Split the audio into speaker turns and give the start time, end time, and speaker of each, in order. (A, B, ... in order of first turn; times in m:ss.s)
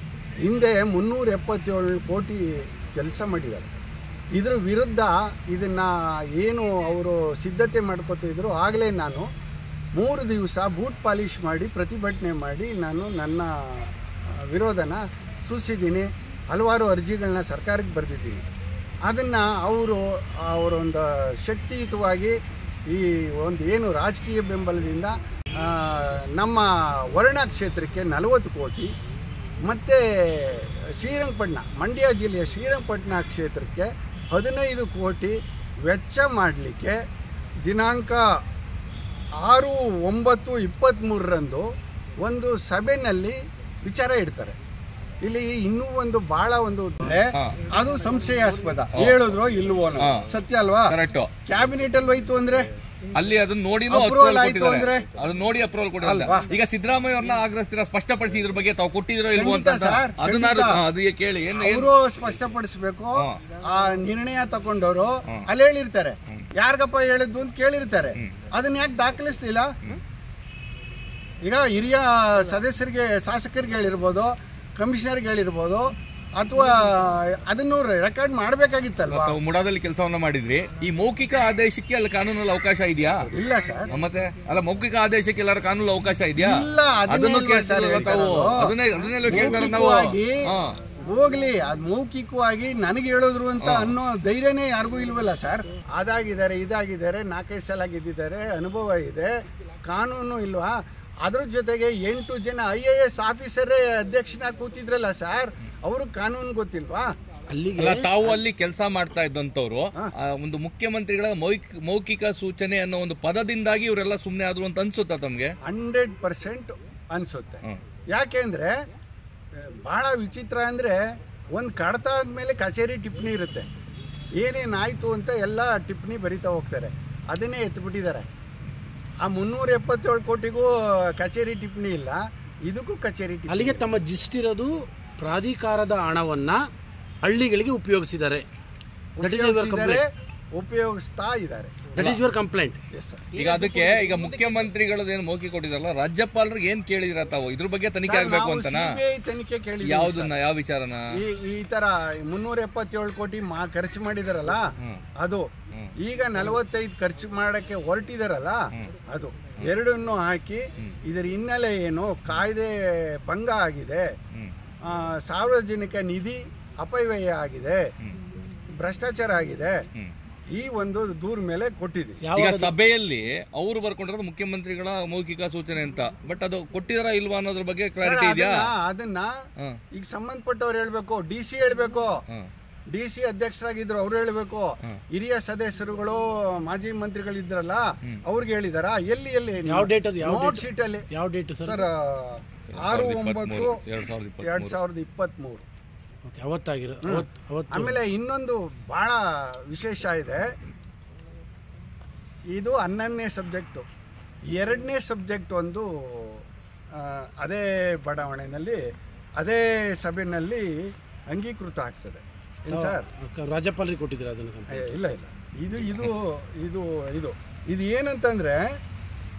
0:00.4-0:03.7 A
0:04.4-0:09.3 A
0:10.0-0:18.4 A
0:19.1-0:22.4 A
0:22.9-0:28.9 A
0:29.7-0:37.0 A
0:37.7-0:38.3 A
0:39.4-0:41.7 A
0:42.2-0:44.6 A
0:45.2-0:52.7 A
0:50.9-0:51.3 B
0:53.1-1:01.9 B
0:53.9-0:55.1 A
0:56.0-0:56.5 A
0:59.4-1:00.8 A
1:01.6-1:09.8 A
1:11.4-1:19.4 A
1:19.1-1:23.3 B
1:23.3-1:23.9 A
1:23.9-1:26.5 B
1:26.4-1:28.7 A
1:27.1-1:30.8 B
1:29.2-1:30.4 A
1:31.0-1:39.3 A
1:33.6-1:34.0 B
1:39.9-1:47.1 A
1:47.5-1:48.2 C
1:47.8-1:55.5 B
1:55.7-1:58.7 A
1:59.6-2:01.0 A
2:01.5-2:03.7 A
2:04.4-2:08.3 A
2:09.2-2:13.8 A
2:13.5-2:16.6 C
2:17.2-2:18.4 C
2:19.2-2:22.1 A
2:19.2-2:20.0 C
2:21.9-2:22.8 C
2:22.9-2:23.3 A
2:23.3-2:24.6 C
2:23.4-2:28.9 B
2:28.0-2:30.4 A
2:29.8-2:31.0 B
2:31.1-2:44.1 A
2:44.9-2:47.8 A
2:48.8-2:49.9 A
2:50.5-2:52.2 A
2:52.2-2:52.7 C
2:52.4-2:58.7 B
2:58.0-2:59.3 A
3:00.0-3:02.2 A
3:02.9-3:11.1 A
3:09.7-3:11.9 C
3:11.6-3:13.8 A
3:12.7-3:14.8 B
3:14.4-3:15.7 A
3:16.3-3:18.0 C
3:17.0-3:20.5 A
3:22.5-3:23.9 A
3:24.5-3:26.4 A
3:27.0-3:28.8 A
3:29.4-3:33.1 A
3:32.7-3:35.0 C
3:34.7-3:38.7 A